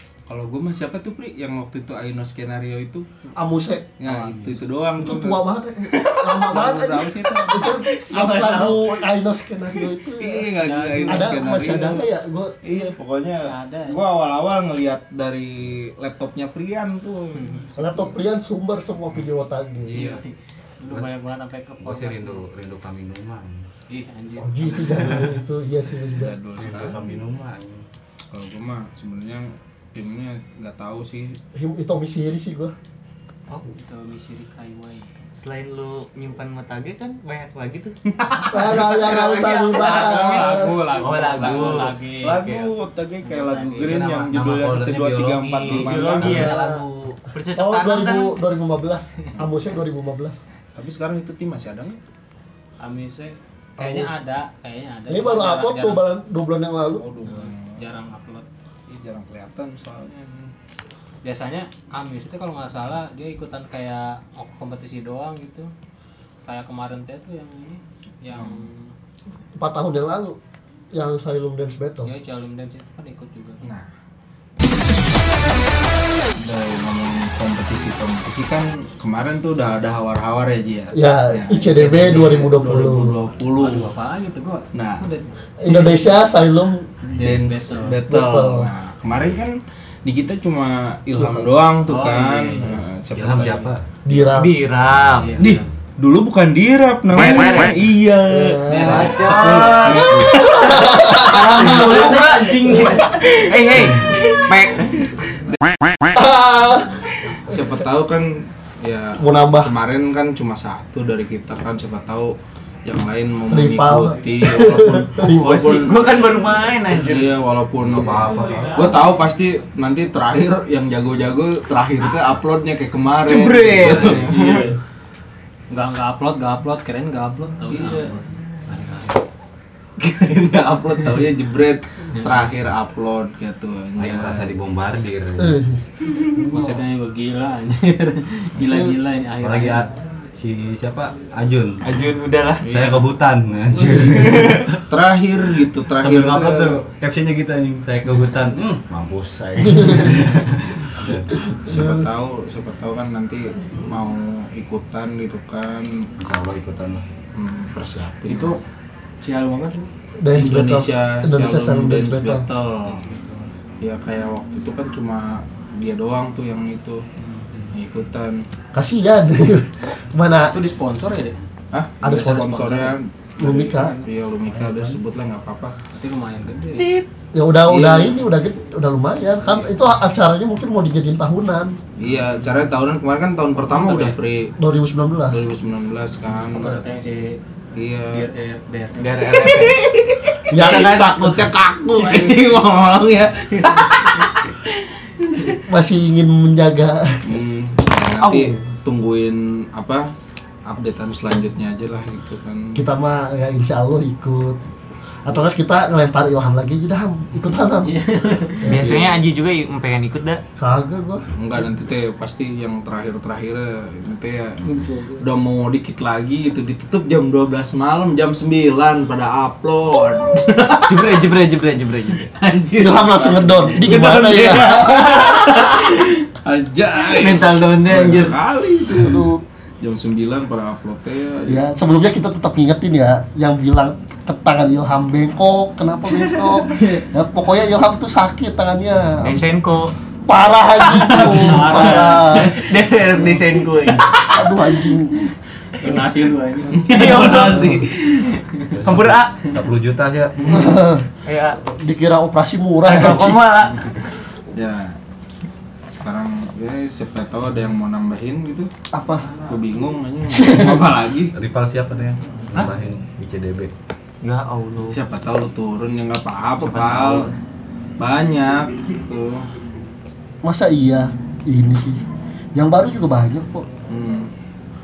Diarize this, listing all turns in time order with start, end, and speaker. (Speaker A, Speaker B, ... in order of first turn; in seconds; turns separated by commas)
Speaker A: 0.3-3.1, Speaker B: 3.4-3.9, Speaker A: 4.0-9.0, Speaker C: 4.0-4.7, Speaker B: 5.0-10.5, Speaker A: 9.7-12.1, Speaker C: 10.6-11.7, Speaker B: 11.1-12.6, Speaker A: 12.6-18.1, Speaker C: 13.4-14.1, Speaker C: 17.4-17.7, Speaker B: 17.8-20.2, Speaker A: 19.9-20.2, Speaker C: 19.9-22.5, Speaker D: 21.8-23.7, Speaker C: 23.9-25.3, Speaker B: 24.4-26.4, Speaker A: 26.0-27.0, Speaker D: 26.6-27.9, Speaker A: 28.3-31.4, Speaker B: 31.6-32.7, Speaker C: 33.5-35.3, Speaker E: 35.4-38.0, Speaker A: 38.2-39.2, Speaker B: 38.5-40.8, Speaker E: 38.6-40.0, Speaker C: 39.2-42.4, Speaker A: 39.7-46.5, Speaker E: 40.9-42.7, Speaker C: 43.2-44.1, Speaker D: 43.8-47.2, Speaker E: 45.6-46.7, Speaker B: 46.3-46.9, Speaker E: 47.3-48.4, Speaker B: 47.5-50.4, Speaker A: 50.8-52.0, Speaker C: 52.8-56.0, Speaker B: 53.8-54.1, Speaker B: 55.1-57.1, Speaker A: 57.0-57.9, Speaker C: 57.2-58.5, Speaker A: 58.9-60.5, Speaker C: 61.2-65.7, Speaker C: 66.5-68.9, Speaker A: 68.3-68.7, Speaker B: 69.6-70.4, Speaker B: 70.9-72.1, Speaker C: 72.0-73.7, Speaker A: 73.6-73.9, Speaker A: 76.4-83.9, Speaker B: 80.9-83.2, Speaker C: 83.5-86.0, Speaker A: 84.7-85.1, Speaker B: 85.6-86.9, Speaker C: 87.1-88.1, Speaker A: 87.1-93.7, Speaker B: 88.1-88.7, Speaker B: 91.2-91.5, Speaker C: 91.9-92.7, Speaker D: 92.6-93.8, Speaker B: 94.0-94.6, Speaker E: 94.3-95.5, Speaker D: 94.9-95.3, Speaker C: 95.2-95.7, Speaker A: 95.4-100.8, Speaker E: 97.1-97.9, Speaker B: 98.3-99.2, Speaker C: 98.7-100.1, Speaker D: 98.8-100.5, Speaker B: 99.9-103.1, Speaker E: 100.3-105.0, Speaker A: 104.5-104.8, Speaker B: 106.1-107.7, Speaker A: 107.5-116.0, Speaker B: 109.2-109.7, Speaker B: 113.5-115.6, Speaker E: 115.2-117.3, Speaker A: 117.0-124.7, Speaker D: 117.8-119.0, Speaker E: 123.3-124.1, Speaker D: 123.7-124.4, Speaker C: 123.8-124.8, Speaker C: 125.7-129.2, Speaker A: 127.7-128.1, Speaker A: 130.0-134.6, Speaker C: 132.1-132.5, Speaker D: 134.0-135.6, Speaker B: 135.4-135.8, Speaker C: 136.3-139.9, Speaker D: 139.4-141.8, Speaker E: 141.8-142.7, Speaker A: 142.6-143.1, Speaker D: 142.7-144.8, Speaker E: 144.1-144.7, Speaker A: 144.8-146.8, Speaker D: 146.0-151.5, Speaker B: 149.6-150.2, Speaker B: 151.3-152.1, Speaker A: 151.6-156.1, Speaker D: 156.2-157.1, Speaker A: 157.3-158.6, Speaker C: 158.3-158.6, Speaker C: 159.2-159.9, Speaker B: 160.2-162.4, Speaker A: 160.3-163.1, Speaker C: 162.8-163.5, Speaker A: 163.8-167.1, Speaker C: 167.2-167.7, Speaker A: 167.7-168.4, Speaker B: 168.7-170.6, Speaker C: 170.5-171.4, Speaker A: 171.7-175.8, Speaker B: 172.0-172.8, Speaker C: 172.2-175.0, Speaker B: 173.4-174.0, Speaker C: 175.9-176.9, Speaker E: 176.8-177.1, Speaker B: 177.3-181.8, Speaker A: 177.7-178.2, Speaker A: 182.0-184.6, Speaker C: 183.7-184.1, Speaker B: 184.6-185.5, Speaker A: 185.3-186.8, Speaker C: 186.5-187.4, Speaker A: 187.8-188.3, Speaker C: 188.1-189.6, Speaker E: 189.0-189.8, Speaker A: 189.1-194.6, Speaker B: 190.5-191.6, Speaker E: 190.6-191.4, Speaker C: 193.6-194.2, Speaker B: 195.6-197.3, Speaker A: 197.2-200.1, Speaker A: 200.7-202.8, Speaker B: 202.8-204.6, Speaker B: 205.2-207.9, Speaker C: 207.7-208.8, Speaker B: 208.6-209.0, Speaker E: 208.7-210.4, Speaker A: 208.7-209.2, Speaker B: 210.6-211.2, Speaker A: 211.3-221.2, Speaker C: 214.7-215.2, Speaker E: 220.7-226.2, Speaker B: 222.8-225.8, Speaker A: 223.7-224.2, Speaker A: 226.4-229.3, Speaker E: 227.0-228.4, Speaker B: 228.9-229.4, Speaker A: 229.8-231.7, Speaker B: 231.5-239.5, Speaker A: 236.8-237.0, Speaker E: 239.2-239.9, Speaker B: 240.3-242.6, Speaker E: 240.8-244.7, Speaker C: 241.2-242.7, Speaker B: 244.3-245.3, Speaker C: 245.8-248.8, Speaker E: 246.7-249.5, Speaker A: 246.9-247.7, Speaker D: 247.2-247.8, Speaker D: 248.7-250.7, Speaker B: 250.5-253.5, Speaker E: 251.3-251.6, Speaker E: 252.8-254.1, Speaker A: 254.5-255.0, Speaker A: 255.9-258.7, Speaker B: 258.9-259.3, Speaker A: 259.5-261.4, Speaker B: 260.3-260.9, Speaker D: 261.3-263.7, Speaker E: 264.2-265.0, Speaker A: 264.9-267.3, Speaker E: 266.6-267.4, Speaker A: 268.0-269.5, Speaker B: 270.4-272.0, Speaker B: 272.6-273.7, Speaker A: 273.9-274.3